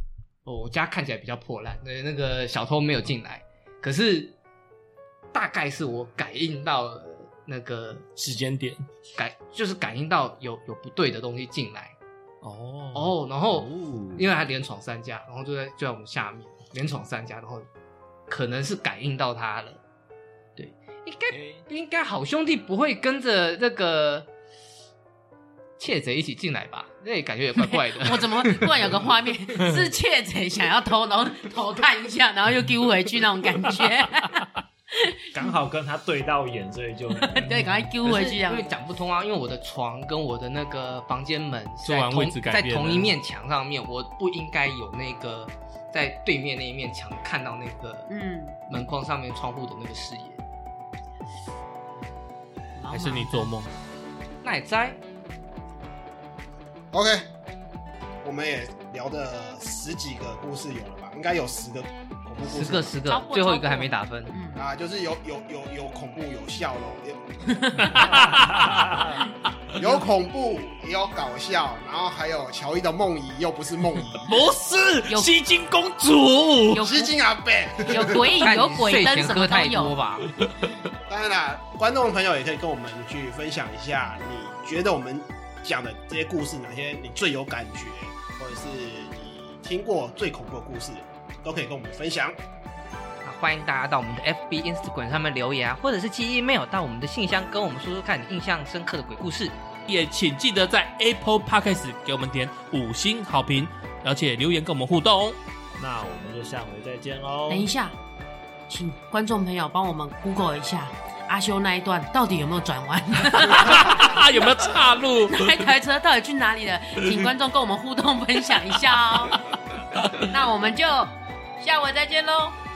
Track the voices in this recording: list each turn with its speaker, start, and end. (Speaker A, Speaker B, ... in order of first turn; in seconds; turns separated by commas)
Speaker A: 0.4-4.3, Speaker A: 5.3-8.1, Speaker B: 8.2-8.8, Speaker A: 9.1-11.9, Speaker B: 12.4-13.1, Speaker A: 12.9-17.7, Speaker C: 13.4-14.3, Speaker A: 18.3-19.8, Speaker A: 20.6-24.3, Speaker C: 21.3-21.7, Speaker A: 25.8-28.9, Speaker D: 27.7-35.2, Speaker C: 35.3-37.8, Speaker D: 37.2-38.7, Speaker A: 38.0-48.1, Speaker B: 41.8-43.1, Speaker D: 48.1-48.6, Speaker A: 48.7-50.4, Speaker D: 52.8-53.5, Speaker B: 52.9-53.7, Speaker A: 54.4-55.0, Speaker E: 56.9-57.3, Speaker E: 58.2-63.0, Speaker A: 62.5-64.3, Speaker D: 63.0-64.7, Speaker E: 64.5-67.3, Speaker D: 67.6-68.1, Speaker B: 67.8-69.1, Speaker C: 68.0-69.2, Speaker E: 69.7-74.3, Speaker B: 74.2-76.9, Speaker D: 76.7-77.2, Speaker E: 76.7-78.4, Speaker D: 77.8-80.0, Speaker A: 78.4-80.3, Speaker E: 81.1-92.4, Speaker A: 93.2-99.5, Speaker B: 99.9-105.4, Speaker C: 105.8-107.7, Speaker D: 107.5-108.0, Speaker D: 108.7-114.2, Speaker B: 113.4-115.7, Speaker D: 115.3-119.4, Speaker D: 120.2-122.5